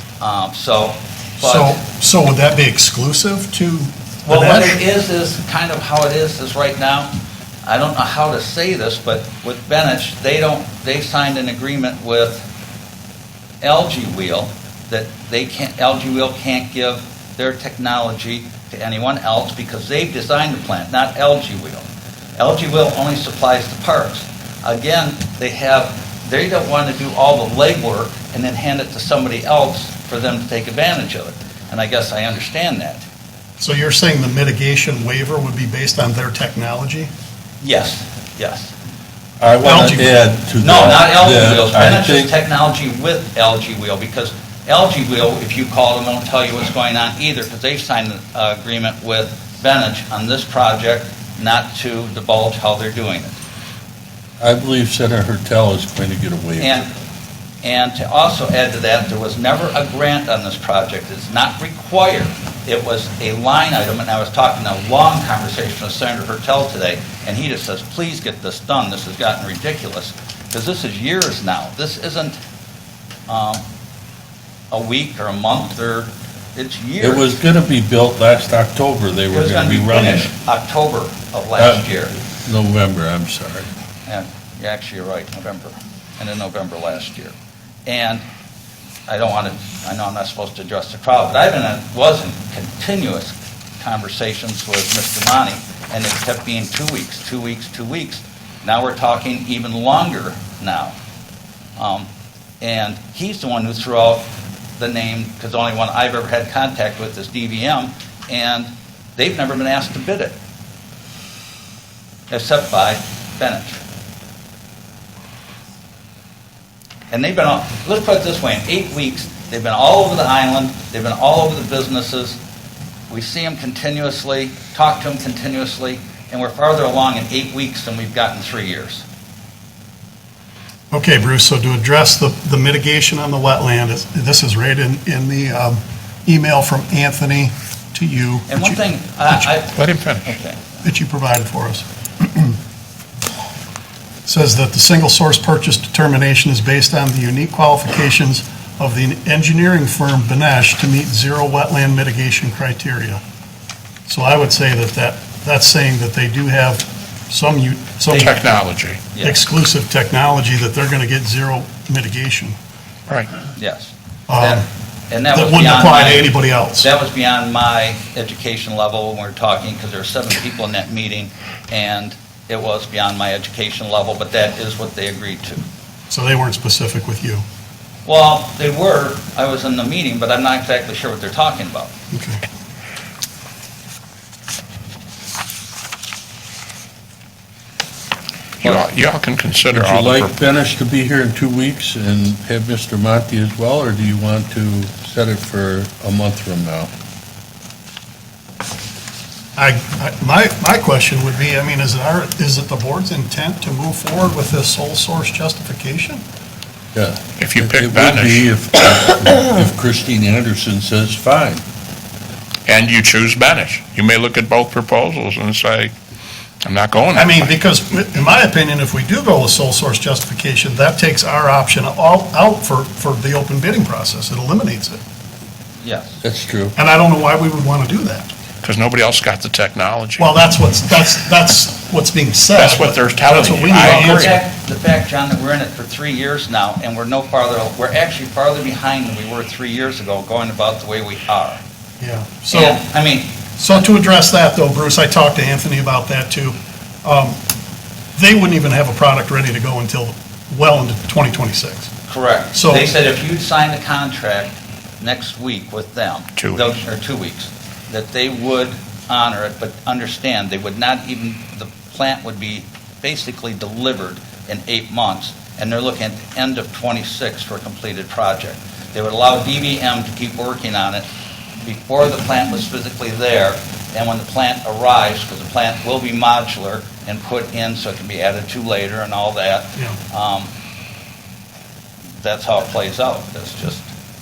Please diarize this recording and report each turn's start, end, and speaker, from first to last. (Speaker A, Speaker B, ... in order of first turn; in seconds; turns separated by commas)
Speaker A: 0.2-1.8, Speaker B: 1.4-4.8, Speaker A: 4.3-7.1, Speaker A: 7.6-12.4, Speaker A: 13.6-33.0, Speaker B: 33.6-37.1, Speaker A: 37.6-38.7, Speaker C: 39.4-42.3, Speaker B: 39.6-40.1, Speaker A: 40.6-53.4, Speaker C: 54.4-56.8, Speaker A: 56.6-56.9, Speaker A: 57.6-72.4, Speaker A: 73.3-73.6, Speaker A: 74.7-77.4, Speaker C: 77.0-80.3, Speaker A: 79.3-82.1, Speaker C: 81.6-83.7, Speaker A: 84.1-87.3, Speaker A: 87.8-88.2, Speaker A: 89.1-100.9, Speaker A: 101.8-102.1, Speaker A: 102.6-104.2, Speaker A: 104.8-110.3, Speaker A: 112.3-113.8, Speaker A: 117.1-122.4, Speaker A: 123.1-129.0, Speaker B: 130.9-138.8, Speaker A: 138.5-140.6, Speaker D: 139.7-140.3, Speaker B: 140.8-142.6, Speaker B: 144.2-153.2, Speaker B: 154.1-158.5, Speaker A: 158.1-158.5, Speaker D: 158.2-159.0, Speaker A: 159.1-159.4, Speaker B: 159.2-162.6, Speaker A: 163.6-175.6, Speaker B: 164.3-164.6, Speaker B: 165.3-166.9, Speaker B: 176.1-177.4, Speaker A: 178.0-181.9, Speaker B: 182.1-182.4, Speaker D: 188.6-190.3, Speaker C: 189.7-196.9, Speaker B: 199.6-206.2, Speaker C: 206.9-211.6, Speaker D: 207.4-209.0, Speaker D: 212.7-215.9, Speaker D: 216.6-217.5, Speaker B: 217.1-225.0, Speaker A: 225.8-226.2, Speaker C: 226.2-226.7, Speaker B: 226.8-228.3, Speaker D: 228.6-230.3, Speaker B: 230.2-234.4, Speaker D: 232.6-234.4, Speaker A: 233.7-241.6, Speaker B: 242.0-242.8, Speaker A: 242.5-243.4, Speaker B: 243.6-247.4, Speaker B: 248.1-251.9, Speaker A: 252.1-271.1, Speaker B: 252.5-252.9, Speaker D: 256.4-256.6, Speaker A: 271.6-280.5, Speaker A: 282.2-283.9